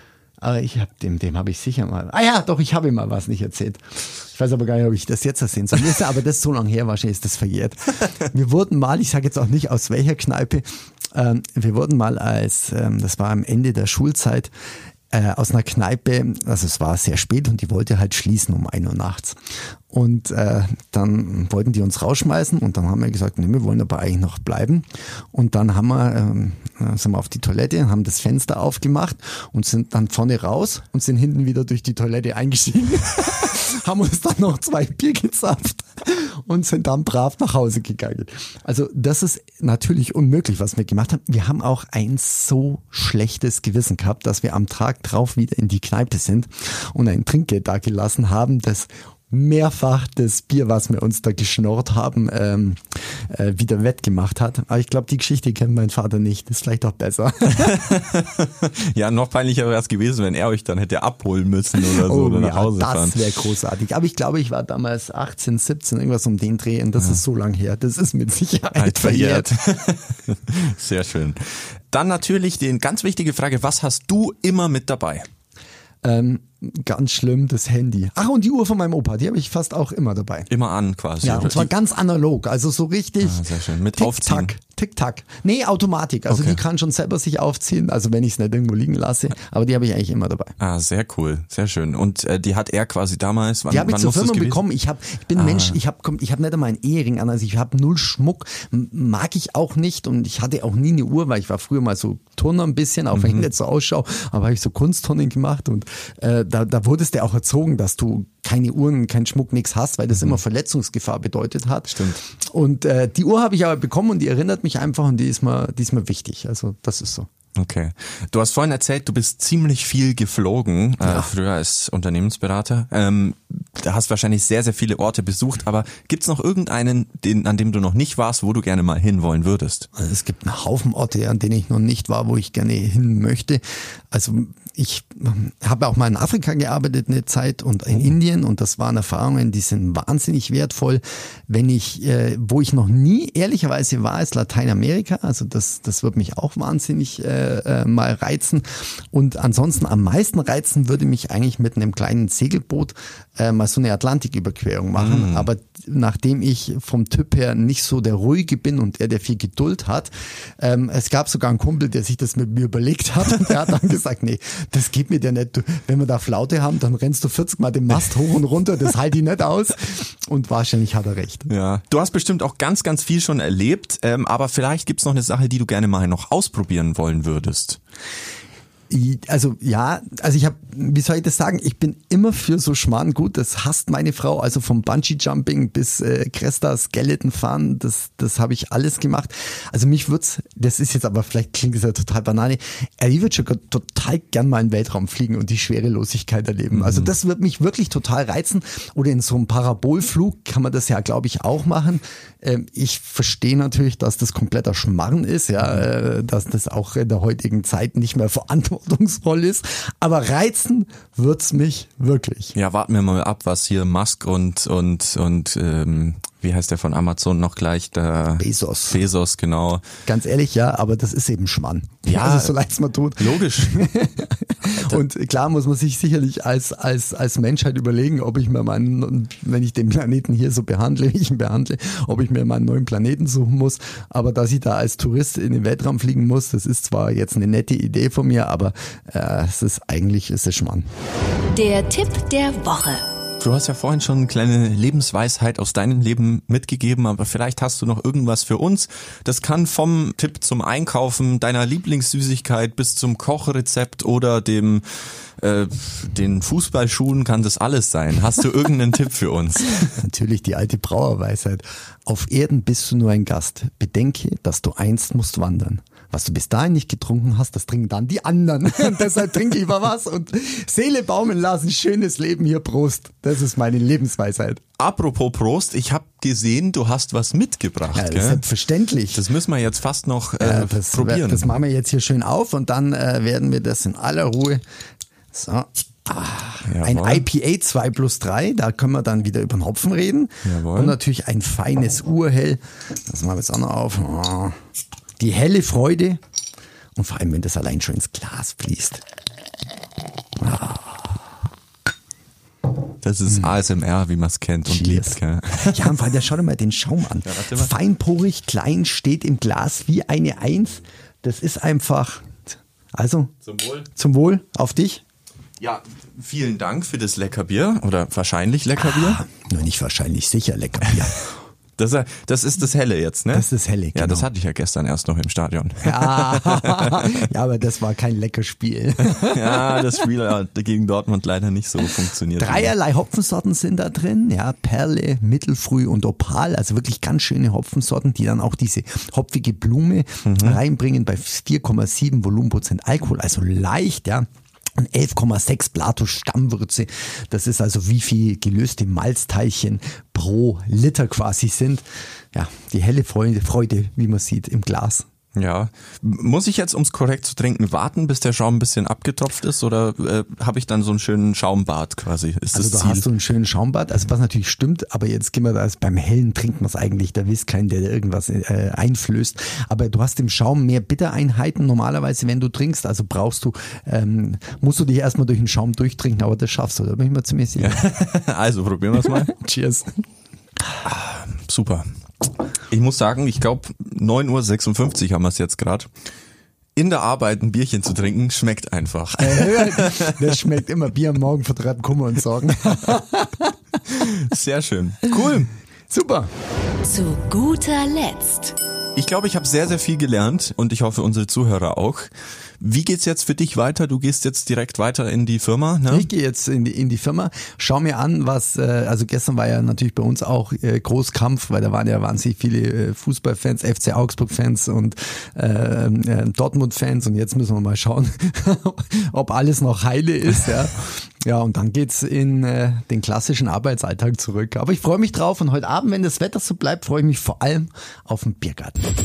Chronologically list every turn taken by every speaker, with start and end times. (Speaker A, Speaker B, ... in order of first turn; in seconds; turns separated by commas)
Speaker A: 0.4-14.5, Speaker A: 15.1-19.4, Speaker A: 19.9-57.8, Speaker B: 57.5-63.2, Speaker A: 61.9-69.5, Speaker B: 68.8-75.3, Speaker A: 76.0-80.5, Speaker B: 80.5-81.7, Speaker A: 81.2-90.6, Speaker B: 83.2-84.5, Speaker B: 86.3-86.6, Speaker B: 90.6-94.6, Speaker A: 93.7-117.3, Speaker B: 95.3-95.8, Speaker B: 103.2-103.5, Speaker B: 111.9-112.2, Speaker B: 117.6-129.9, Speaker A: 121.0-121.3, Speaker A: 129.9-171.5, Speaker B: 155.0-155.5, Speaker B: 171.5-177.8, Speaker A: 178.9-212.6, Speaker B: 196.7-197.1, Speaker B: 212.6-219.8, Speaker A: 218.4-219.0, Speaker A: 220.1-240.9, Speaker B: 222.1-222.6, Speaker B: 223.2-223.9, Speaker B: 224.7-225.0, Speaker C: 241.5-243.0, Speaker B: 243.4-259.9, Speaker A: 259.9-274.6, Speaker B: 274.8-278.4, Speaker A: 277.9-279.2, Speaker B: 279.1-281.6, Speaker A: 280.4-284.6, Speaker A: 285.3-294.6, Speaker B: 286.6-287.3, Speaker B: 290.4-291.0, Speaker A: 295.2-296.2, Speaker A: 297.0-299.0, Speaker A: 300.4-301.1, Speaker B: 303.0-305.9, Speaker A: 304.7-313.3, Speaker B: 307.2-307.7, Speaker B: 313.4-313.9, Speaker A: 313.9-315.0, Speaker B: 315.6-319.2, Speaker A: 318.8-321.4, Speaker B: 321.8-327.2, Speaker A: 323.3-324.3, Speaker A: 325.8-329.8, Speaker B: 329.1-332.7, Speaker A: 332.4-355.1, Speaker B: 340.2-340.6, Speaker B: 355.4-363.1, Speaker A: 362.5-377.8, Speaker B: 377.6-379.4, Speaker A: 379.0-380.0, Speaker B: 380.8-381.9, Speaker B: 382.7-385.9, Speaker B: 386.8-390.4, Speaker A: 389.2-394.1, Speaker B: 394.0-395.5, Speaker A: 395.9-396.3, Speaker C: 396.8-398.6, Speaker B: 399.0-406.1, Speaker A: 405.9-428.8